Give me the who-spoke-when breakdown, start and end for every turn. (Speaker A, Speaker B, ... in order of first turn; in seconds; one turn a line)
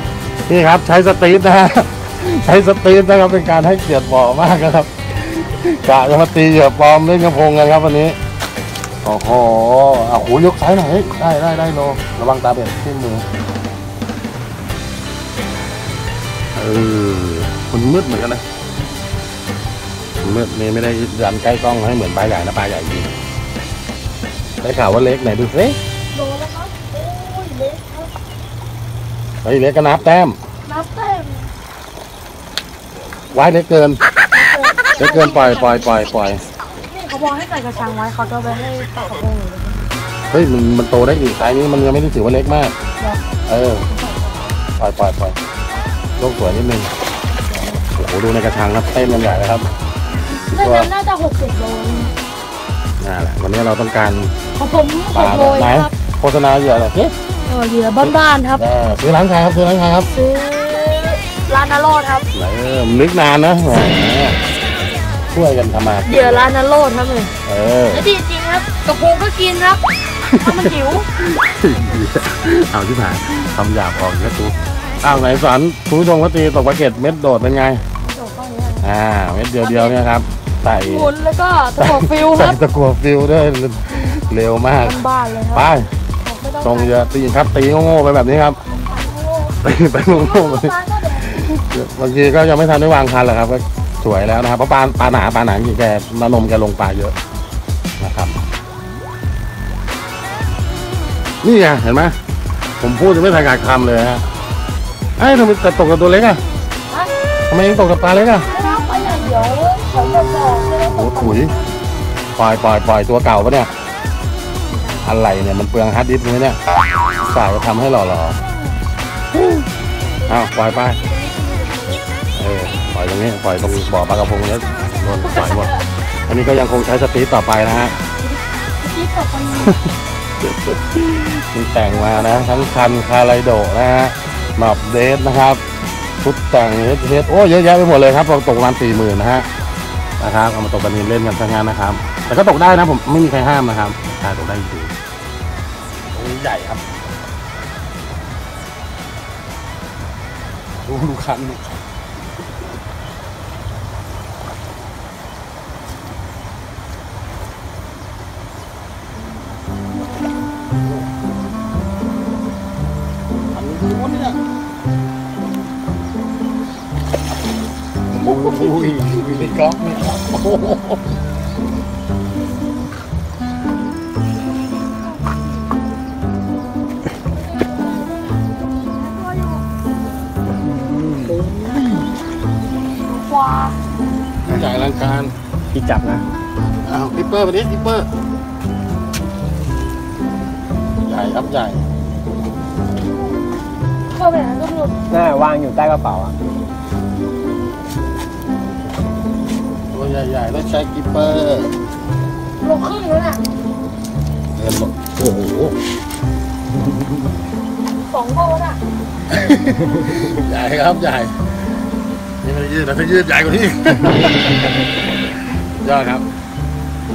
Speaker A: 0.5-8.2
Speaker A: 9.0-13.2
Speaker A: 16.5-18.4
Speaker A: 20.2-23.1
Speaker A: 24.6-25.8
Speaker B: 26.1-28.1
Speaker A: 29.4-30.4
Speaker B: 30.6-31.5
Speaker A: 33.3-34.0
Speaker B: 34.3-36.0
Speaker A: 35.0-36.4
Speaker B: 36.9-39.9
Speaker A: 40.3-42.7
Speaker A: 43.5-43.9
Speaker B: 43.9-44.4
Speaker A: 44.8-45.4
Speaker A: 46.2-46.9
Speaker B: 47.5-47.8
Speaker A: 47.9-49.7
Speaker B: 50.4-52.1
Speaker A: 50.6-50.9
Speaker A: 53.0-54.3
Speaker B: 54.5-55.9
Speaker A: 55.1-57.1
Speaker B: 57.5-58.6
Speaker A: 58.0-60.1
Speaker B: 60.1-62.3
Speaker A: 62.3-64.4
Speaker A: 65.3-66.5
Speaker B: 66.0-67.3
Speaker A: 67.5-68.1
Speaker B: 67.9-71.1
Speaker A: 70.2-77.8
Speaker B: 78.0-78.9
Speaker A: 78.8-81.1
Speaker B: 79.6-80.0
Speaker B: 80.8-82.6
Speaker A: 81.8-85.0
Speaker B: 83.9-84.2
Speaker B: 84.8-87.2
Speaker A: 85.5-85.9
Speaker A: 86.6-88.6
Speaker B: 88.6-91.6
Speaker A: 89.6-90.7
Speaker A: 91.2-97.2
Speaker A: 98.0-98.4
Speaker A: 101.4-102.2
Speaker A: 102.8-104.2
Speaker A: 105.2-106.4
Speaker A: 107.5-108.5
Speaker B: 108.4-111.6
Speaker A: 110.8-111.5
Speaker A: 112.3-113.7
Speaker B: 114.7-115.0
Speaker A: 115.0-116.6
Speaker A: 117.2-118.4
Speaker B: 118.4-118.8
Speaker A: 120.3-121.0
Speaker B: 121.0-122.0
Speaker A: 122.3-125.8
Speaker B: 125.2-125.8
Speaker A: 126.3-127.9
Speaker B: 128.8-129.8
Speaker A: 129.6-129.8
Speaker A: 130.4-135.6
Speaker A: 136.2-139.5
Speaker A: 140.2-144.9
Speaker A: 146.1-146.9
Speaker A: 150.8-151.8
Speaker A: 163.5-164.4
Speaker A: 168.1-170.9
Speaker C: 168.4-169.5
Speaker B: 178.9-179.6
Speaker C: 180.8-182.1
Speaker B: 183.0-183.8
Speaker A: 184.4-185.3
Speaker C: 185.7-186.2
Speaker A: 186.8-188.1
Speaker A: 191.0-191.8
Speaker B: 194.1-195.0
Speaker C: 195.1-196.4
Speaker A: 199.9-201.8
Speaker B: 202.6-203.4
Speaker A: 204.5-205.8
Speaker B: 208.1-208.8
Speaker A: 209.3-211.4
Speaker A: 212.4-214.7
Speaker A: 215.8-216.2